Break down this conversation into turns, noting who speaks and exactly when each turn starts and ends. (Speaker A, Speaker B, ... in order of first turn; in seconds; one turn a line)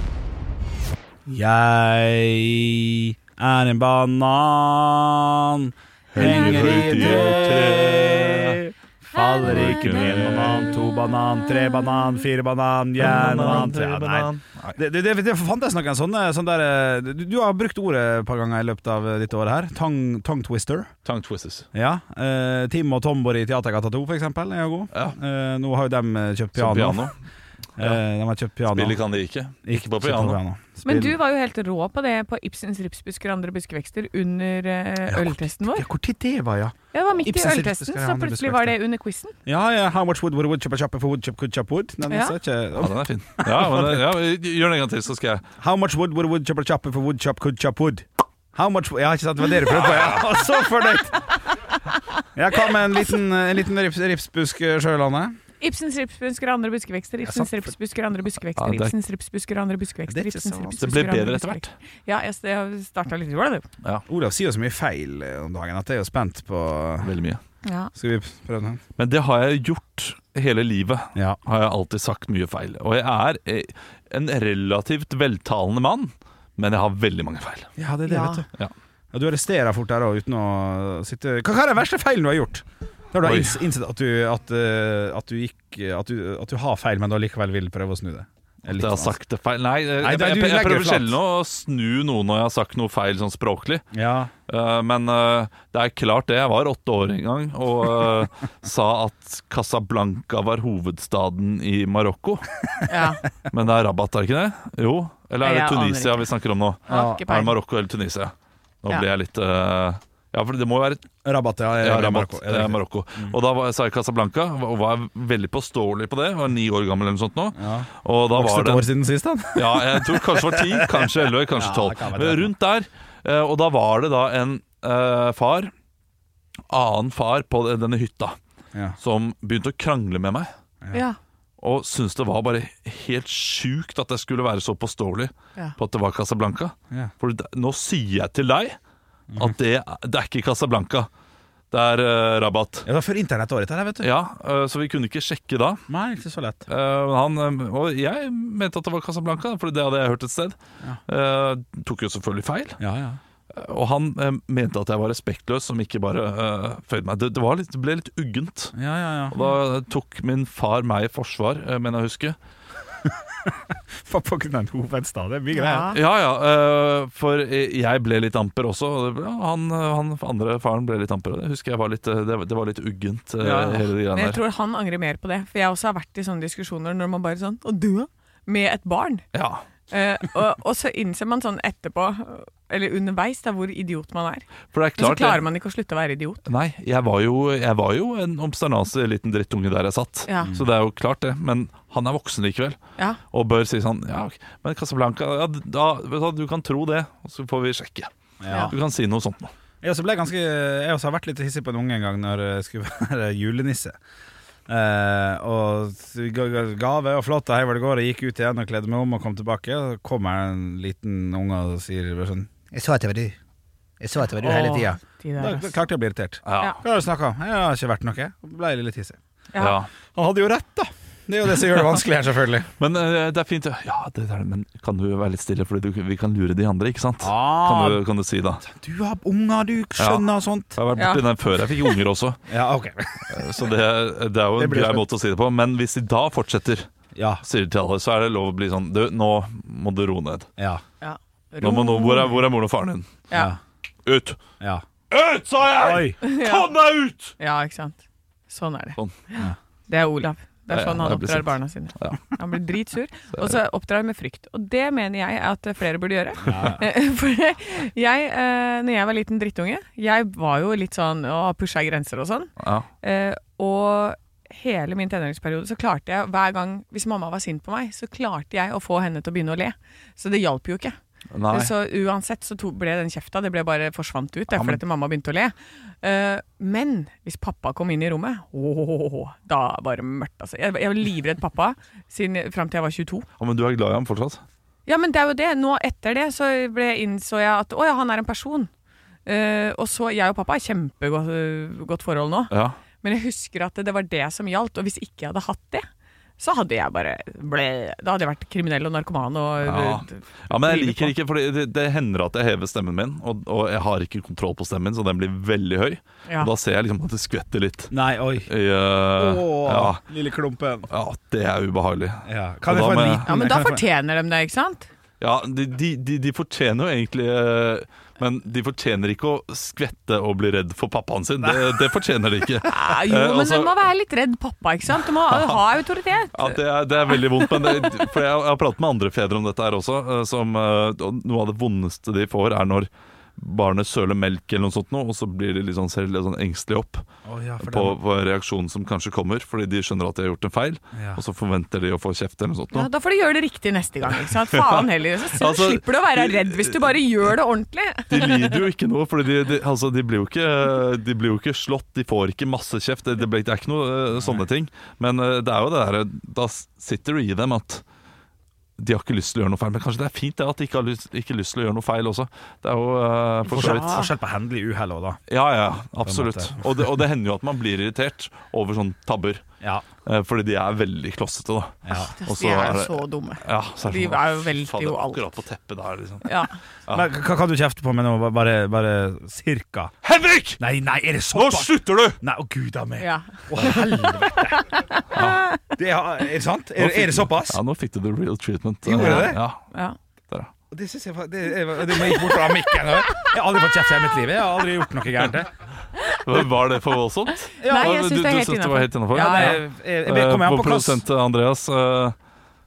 Speaker A: 1.3-20.9
Speaker B: 6.1-8.6
Speaker C: 6.2-7.4
Speaker C: 9.1-12.2
Speaker B: 9.4-10.7
Speaker B: 13.0-14.8
Speaker B: 21.1-21.7
Speaker A: 21.7-27.1
Speaker B: 26.5-27.1
Speaker A: 27.8-29.0
Speaker B: 28.7-30.4
Speaker A: 29.6-31.2
Speaker C: 30.9-35.8
Speaker A: 35.1-38.8
Speaker C: 36.9-39.3
Speaker A: 39.5-44.1
Speaker C: 42.1-42.3
Speaker B: 42.8-45.4
Speaker A: 45.6-51.2
Speaker B: 49.7-50.2
Speaker A: 52.3-55.4
Speaker C: 55.6-63.6
Speaker A: 57.2-57.7
Speaker B: 58.5-58.9
Speaker A: 60.1-60.8
Speaker B: 60.8-61.7
Speaker A: 64.1-67.1
Speaker B: 67.0-67.4
Speaker C: 67.6-67.9
Speaker A: 67.9-68.8
Speaker B: 69.0-77.7
Speaker A: 77.8-78.5
Speaker C: 78.0-78.5
Speaker A: 79.1-89.2
Speaker B: 83.2-83.6
Speaker B: 88.7-93.8
Speaker A: 90.0-91.2
Speaker A: 93.9-94.3
Speaker B: 94.5-102.5
Speaker C: 102.9-103.2
Speaker B: 103.5-111.1
Speaker C: 105.4-106.3
Speaker C: 106.9-107.5
Speaker A: 106.9-107.2
Speaker A: 111.2-113.4
Speaker B: 111.8-118.9
Speaker A: 117.5-122.5
Speaker B: 119.5-125.7
Speaker B: 126.7-128.3
Speaker B: 129.0-130.5
Speaker C: 130.9-131.2
Speaker B: 131.6-138.8
Speaker B: 139.3-141.1
Speaker B: 141.7-142.8
Speaker A: 142.8-144.1
Speaker B: 144.0-145.8
Speaker A: 145.9-146.6
Speaker B: 146.7-152.8
Speaker A: 152.8-153.2
Speaker B: 153.5-158.8
Speaker A: 158.8-159.4
Speaker B: 159.3-162.3
Speaker A: 163.1-165.9
Speaker C: 165.5-166.0
Speaker B: 165.9-174.4
Speaker A: 173.4-173.9
Speaker C: 174.1-179.2
Speaker B: 179.3-179.6
Speaker C: 179.9-184.4
Speaker B: 184.7-185.4
Speaker C: 185.0-186.4
Speaker B: 186.4-192.8
Speaker C: 190.3-190.5
Speaker B: 193.3-199.5
Speaker A: 198.4-198.8
Speaker A: 199.8-204.0
Speaker A: 204.7-213.4
Speaker A: 214.0-219.2
Speaker C: 214.3-215.7
Speaker B: 216.4-216.8
Speaker B: 219.6-219.9
Speaker A: 220.1-222.7
Speaker B: 222.8-228.6
Speaker A: 227.2-228.0
Speaker A: 228.6-230.7
Speaker B: 230.0-232.4
Speaker C: 230.9-231.2
Speaker A: 232.5-233.4
Speaker B: 233.3-236.9
Speaker A: 234.6-235.0
Speaker A: 237.1-237.4
Speaker B: 237.4-240.5
Speaker A: 240.6-240.8
Speaker C: 241.0-242.4
Speaker B: 241.6-243.2
Speaker A: 243.3-243.6
Speaker B: 244.0-244.4
Speaker B: 245.1-247.3
Speaker A: 245.7-246.2
Speaker C: 246.2-246.7
Speaker C: 247.4-262.5
Speaker B: 250.7-252.3
Speaker B: 253.3-253.6
Speaker A: 256.4-256.8
Speaker B: 256.5-256.8
Speaker B: 262.6-262.9
Speaker C: 263.0-271.0
Speaker B: 271.3-271.7
Speaker C: 271.5-283.3
Speaker B: 274.5-274.8
Speaker B: 283.4-284.4
Speaker C: 284.9-288.7
Speaker C: 289.2-295.9
Speaker B: 292.5-292.8
Speaker C: 296.4-301.1
Speaker B: 299.6-307.9
Speaker A: 307.9-308.5
Speaker B: 308.4-310.0
Speaker A: 309.1-310.9
Speaker B: 310.9-313.3
Speaker A: 312.2-313.8
Speaker C: 313.3-314.9
Speaker B: 315.2-323.8
Speaker C: 322.7-326.6
Speaker B: 325.1-325.6
Speaker B: 326.3-337.1
Speaker C: 327.4-328.0
Speaker A: 337.2-338.0
Speaker B: 337.6-342.9
Speaker A: 340.9-341.2
Speaker C: 342.7-348.6
Speaker B: 344.1-347.0
Speaker B: 348.1-357.8
Speaker A: 354.2-354.4
Speaker B: 358.8-364.1
Speaker C: 363.4-364.1
Speaker A: 363.5-365.2
Speaker B: 365.3-369.4
Speaker A: 366.0-366.8
Speaker B: 370.0-377.1
Speaker A: 371.9-372.1
Speaker C: 371.9-375.4
Speaker C: 376.2-376.6
Speaker A: 376.9-379.9
Speaker B: 380.0-380.6
Speaker A: 380.6-384.7
Speaker B: 381.3-382.2
Speaker C: 383.0-385.6
Speaker B: 385.1-385.5
Speaker A: 385.8-387.6
Speaker B: 386.8-389.6
Speaker A: 388.8-389.4
Speaker C: 389.0-389.9
Speaker A: 390.7-395.5
Speaker C: 392.0-392.4
Speaker B: 396.1-402.1
Speaker C: 397.6-399.6
Speaker A: 399.2-401.0